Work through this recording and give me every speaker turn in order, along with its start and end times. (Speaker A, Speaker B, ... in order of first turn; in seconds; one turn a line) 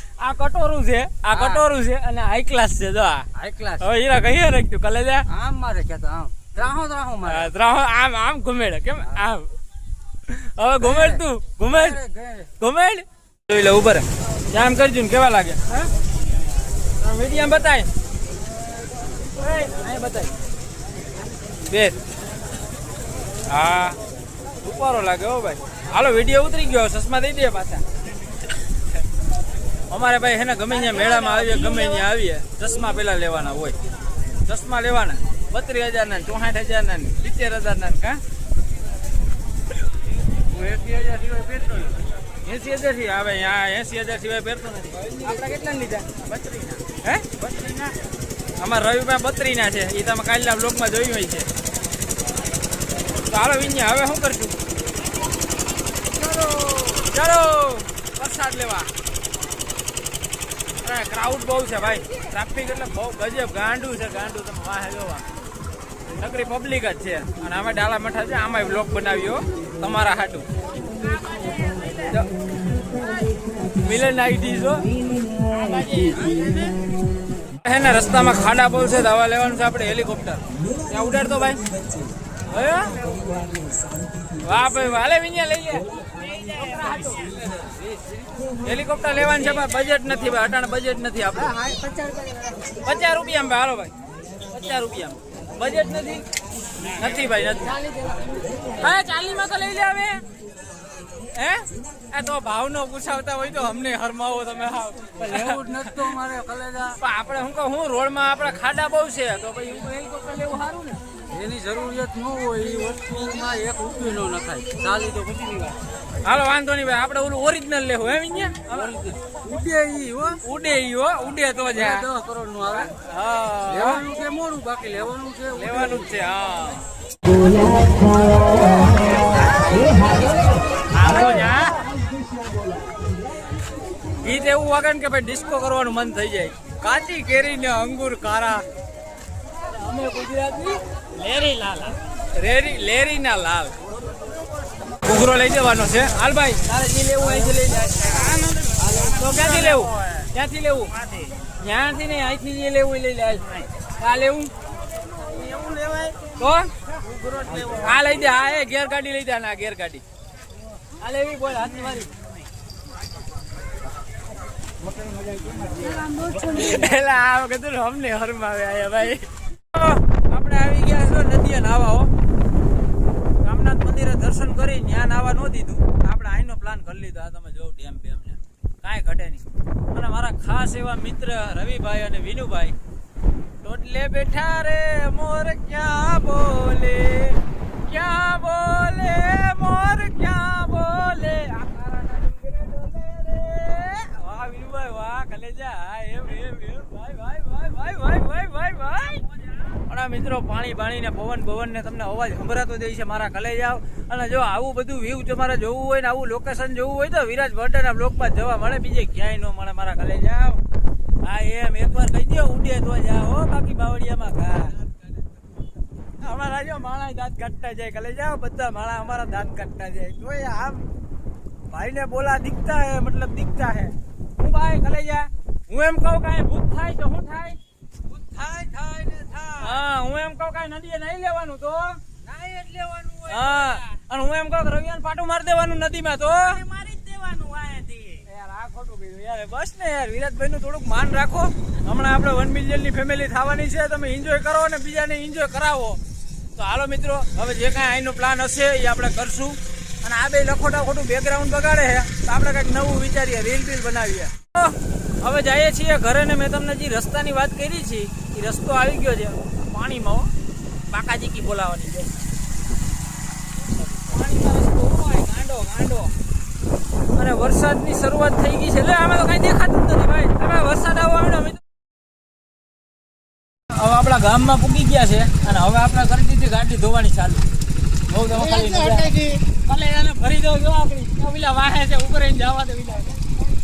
Speaker A: 0.2-3.3
Speaker B: 1.3-1.6
Speaker B: 3.3-3.9
Speaker A: 3.8-5.2
Speaker B: 5.3-7.5
Speaker A: 7.2-9.5
Speaker A: 10.3-12.0
Speaker B: 10.8-12.5
Speaker A: 12.6-15.9
Speaker A: 17.0-17.9
Speaker A: 19.4-20.3
Speaker A: 21.7-22.0
Speaker A: 23.5-24.0
Speaker A: 24.6-27.8
Speaker A: 29.9-33.8
Speaker C: 30.7-32.1
Speaker A: 34.4-38.2
Speaker B: 40.5-42.0
Speaker A: 42.4-46.0
Speaker B: 45.0-45.6
Speaker C: 46.2-46.8
Speaker C: 47.4-48.0
Speaker A: 48.6-51.5
Speaker A: 53.1-54.6
Speaker A: 57.0-58.9
Speaker A: 60.8-65.2
Speaker A: 66.2-70.5
Speaker C: 71.1-72.0
Speaker A: 73.8-74.8
Speaker C: 75.5-76.8
Speaker A: 77.6-81.6
Speaker A: 82.5-82.9
Speaker A: 84.4-85.9
Speaker C: 86.1-87.3
Speaker A: 86.5-88.0
Speaker A: 88.6-91.5
Speaker B: 91.5-92.6
Speaker A: 92.8-93.9
Speaker A: 94.5-96.2
Speaker A: 96.9-97.7
Speaker B: 97.7-98.7
Speaker A: 98.8-100.2
Speaker A: 101.3-106.1
Speaker B: 105.2-107.0
Speaker A: 107.0-111.0
Speaker B: 111.3-115.8
Speaker A: 116.2-119.2
Speaker B: 118.8-120.4
Speaker A: 120.4-122.1
Speaker B: 121.7-122.9
Speaker A: 122.9-124.0
Speaker B: 123.7-126.1
Speaker A: 125.5-126.8
Speaker C: 130.9-131.8
Speaker A: 134.2-138.6
Speaker A: 139.7-140.8
Speaker C: 141.1-142.0
Speaker A: 142.3-143.8
Speaker A: 145.0-148.4
Speaker C: 148.0-150.3
Speaker B: 148.8-149.2
Speaker A: 149.1-150.9
Speaker C: 150.9-151.4
Speaker A: 151.6-153.4
Speaker C: 153.4-153.7
Speaker A: 154.0-154.5
Speaker C: 155.3-156.2
Speaker A: 156.4-156.7
Speaker C: 156.8-158.3
Speaker B: 157.5-157.9
Speaker A: 157.8-160.0
Speaker A: 161.0-162.1
Speaker C: 162.0-162.3
Speaker C: 164.8-166.8
Speaker A: 166.2-172.1
Speaker A: 173.4-182.7
Speaker A: 183.6-210.6
Speaker A: 211.2-214.8
Speaker A: 216.2-220.8
Speaker A: 221.7-227.6
Speaker B: 228.1-229.8
Speaker A: 229.6-232.0
Speaker B: 232.2-233.9
Speaker A: 233.3-236.6
Speaker C: 236.3-238.3
Speaker A: 238.3-246.0
Speaker A: 246.6-260.3
Speaker A: 260.9-262.2
Speaker A: 263.9-266.1
Speaker A: 267.1-271.6
Speaker A: 273.7-277.4
Speaker A: 278.1-283.2
Speaker C: 278.4-279.4